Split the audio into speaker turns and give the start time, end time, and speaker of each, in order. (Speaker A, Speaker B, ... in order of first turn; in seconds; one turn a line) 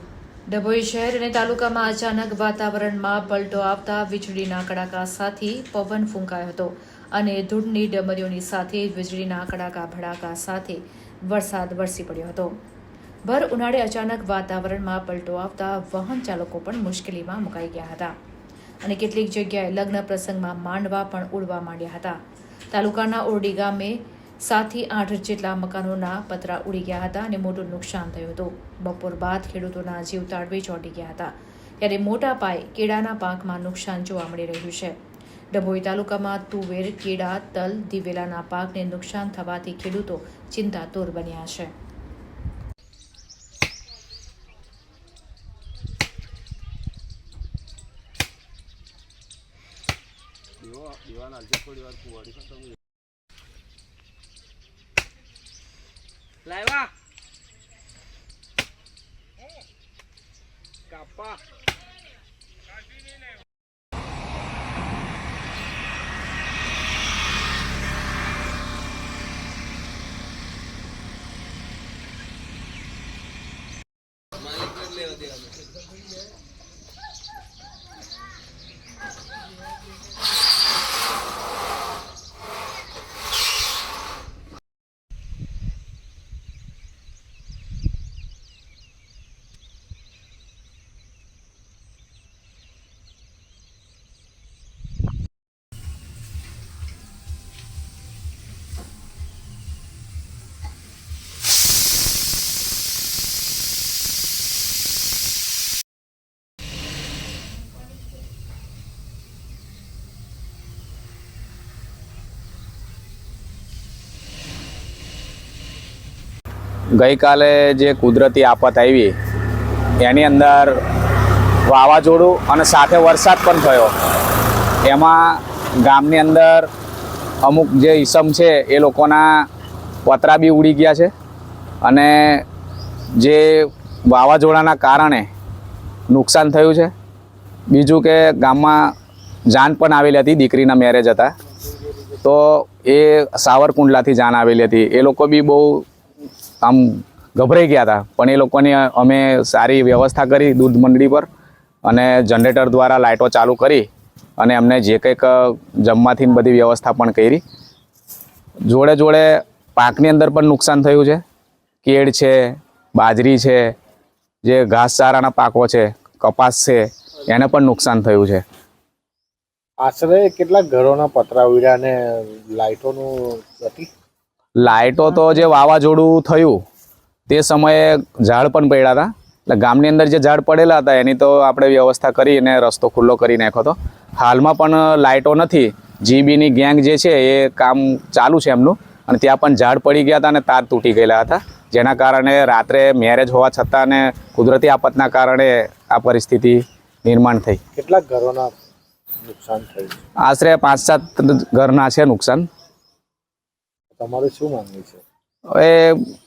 Speaker A: 0.5-12.5
Speaker A: 13.2-18.1
Speaker A: 18.8-22.2
Speaker A: 22.7-35.0
Speaker A: 35.5-41.7
Speaker B: 117.0-119.1
Speaker B: 120.0-120.8
Speaker B: 121.6-123.9
Speaker B: 124.8-126.7
Speaker B: 127.4-129.4
Speaker B: 130.0-131.1
Speaker B: 131.8-132.4
Speaker B: 133.2-135.3
Speaker B: 136.1-136.9
Speaker B: 137.7-138.9
Speaker B: 139.5-141.3
Speaker B: 142.2-145.8
Speaker B: 146.6-151.3
Speaker B: 151.8-153.8
Speaker B: 154.4-157.4
Speaker B: 158.7-161.2
Speaker B: 161.8-163.7
Speaker B: 164.4-168.4
Speaker C: 169.8-173.9
Speaker B: 174.6-176.6
Speaker B: 177.3-197.6
Speaker C: 197.8-198.5
Speaker C: 199.2-200.0
Speaker B: 200.2-202.4
Speaker C: 203.9-205.0
Speaker B: 205.5-206.0